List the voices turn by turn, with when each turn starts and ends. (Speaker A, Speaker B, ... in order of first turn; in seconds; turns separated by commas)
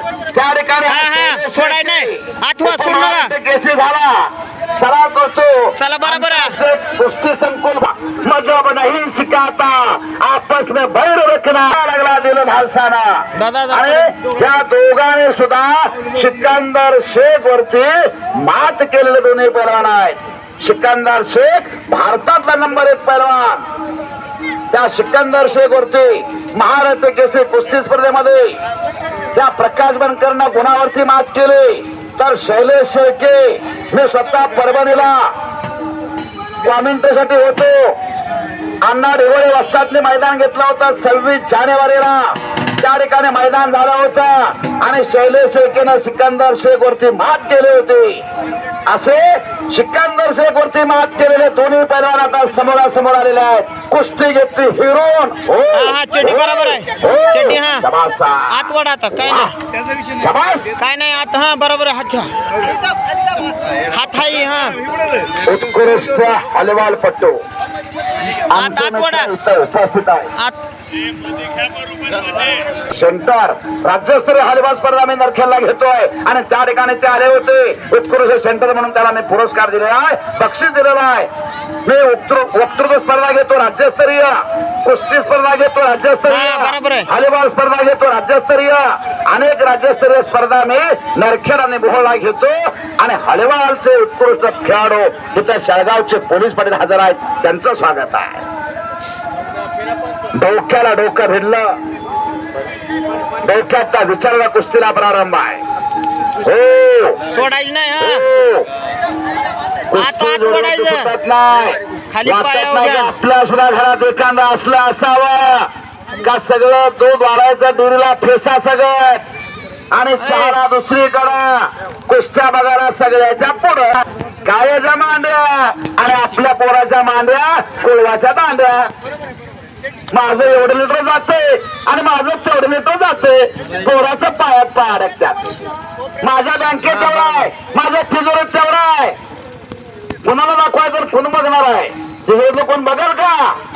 Speaker A: 0.3-23.6, Speaker B: 0.9-3.4, Speaker B: 5.8-6.6, Speaker B: 13.4-14.1, Speaker A: 24.7-28.6, Speaker A: 29.3-35.3, Speaker A: 36.6-38.0, Speaker A: 38.9-48.2, Speaker A: 48.9-59.5, Speaker B: 55.7-57.9, Speaker B: 58.5-59.5, Speaker A: 60.2-60.8, Speaker B: 60.8-62.3, Speaker B: 63.9-64.8, Speaker A: 65.4-67.4, Speaker A: 68.5-70.3, Speaker B: 68.5-69.3, Speaker A: 72.8-81.3, Speaker A: 81.9-98.5, Speaker B: 86.3-87.1, Speaker A: 100.3-101.8, Speaker A: 103.4-105.6, Speaker A: 106.4-107.3, Speaker B: 107.3-108.3, Speaker A: 108.0-108.7, Speaker A: 109.9-115.7, Speaker B: 109.9-111.1, Speaker B: 112.1-113.1, Speaker A: 116.2-119.2, Speaker A: 119.9-128.9, Speaker B: 120.2-120.6, Speaker A: 130.1-135.5, Speaker A: 136.2-139.2, Speaker B: 136.8-137.5, Speaker A: 140.2-143.6